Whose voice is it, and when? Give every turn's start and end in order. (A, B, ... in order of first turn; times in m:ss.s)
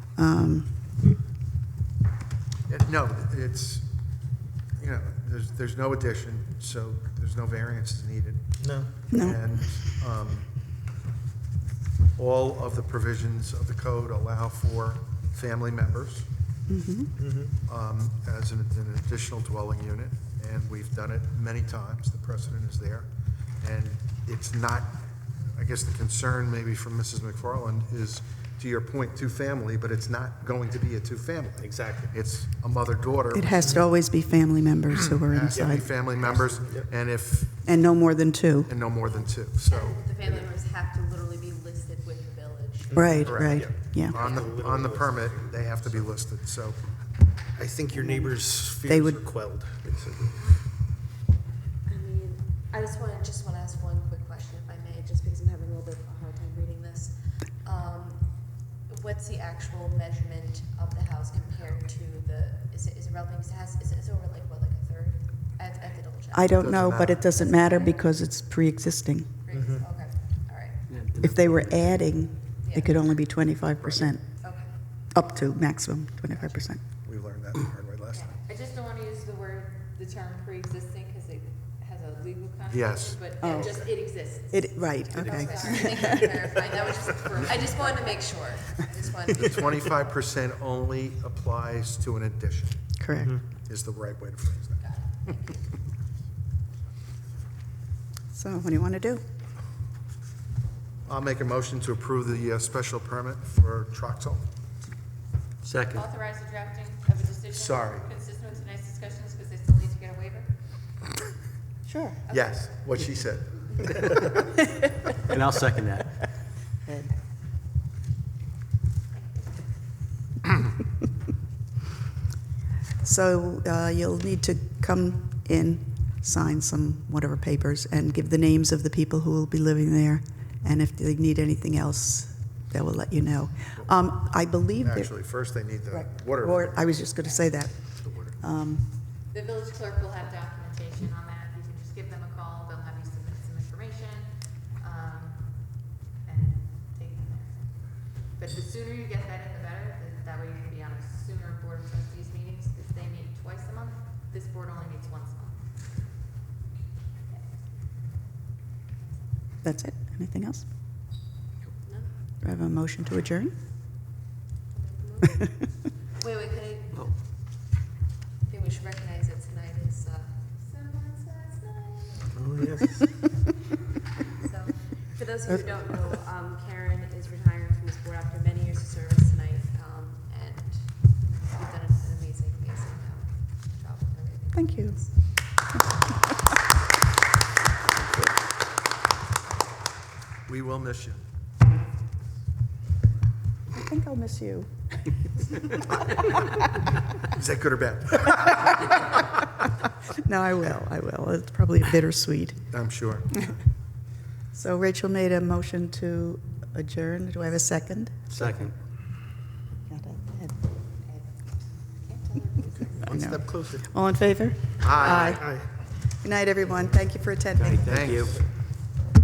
0:00.1-0:00.8 A
0:02.7-0:03.8 B
0:04.8-0:10.5 B
0:08.6-0:09.0 C
0:09.1-0:09.5 A
0:12.2-0:16.3 B
0:16.7-0:17.2 A
0:17.2-0:17.5 C
0:17.6-0:23.1 B
0:23.6-0:25.0 B
0:25.5-0:33.8 B
0:31.6-0:32.1 C
0:33.3-0:35.9 A
0:33.6-0:33.9 C
0:35.3-0:37.6 B
0:35.4-0:36.9 C
0:37.6-0:38.8 A
0:38.6-0:40.0 B
0:39.5-0:43.5 D
0:40.2-0:40.5 C
0:42.9-0:46.2 C
0:42.9-0:44.2 A
0:43.2-0:46.8 B
0:47.5-0:50.6 C
0:47.9-0:49.2 A
0:51.8-1:08.0 D
1:06.3-1:09.3 A
1:06.6-1:07.2 B
1:09.4-1:11.0 D
1:09.5-1:09.9 C
1:10.9-1:11.8 E
1:11.2-1:14.4 A
1:12.6-1:13.0 D
1:14.4-1:14.8 D
1:15.1-1:16.8 A
1:17.0-1:18.3 B
1:18.3-1:28.2 F
1:22.7-1:23.4 B
1:23.4-1:26.3 A
1:23.5-1:24.4 D
1:25.2-1:30.1 D
1:29.2-1:32.9 B
1:33.0-1:33.3 A
1:33.2-1:33.4 C
1:33.6-1:34.8 B
1:34.8-1:35.7 D
1:38.3-1:39.2 A
1:41.0-1:44.4 B
1:45.6-1:46.1 E
1:45.9-1:50.5 F
1:47.5-1:48.1 B
1:51.8-1:52.2 A
1:52.3-1:52.5 F
1:52.3-1:54.4 B
1:55.3-1:56.2 E
1:56.8-1:57.1 A
2:03.0-2:15.3 A
2:14.8-2:16.9 B
2:15.9-2:18.9 A
2:19.3-2:35.6 F
2:39.6-2:40.7 A
2:41.8-2:42.1 D
2:42.4-2:43.5 A
2:44.7-2:47.1 D
2:48.4-2:52.2 D
2:52.3-2:53.1 C
2:54.4-3:05.4 D
3:04.5-3:05.0 A
3:10.4-3:11.2 B
3:13.7-3:14.7 A
3:17.3-3:19.1 B
3:20.2-3:22.6 A
3:22.7-3:23.5 B
3:24.5-3:28.2 A
3:28.3-3:28.7 E
3:28.3-3:28.7 C
3:29.9-3:30.6 A
3:31.0-3:33.0 F
3:32.6-3:33.9 C
3:33.0-3:35.6 A
3:34.8-3:35.4 B
3:35.0-3:35.7 C
3:36.1-3:38.0 A
3:37.6-3:38.3 E
3:37.8-3:38.4 B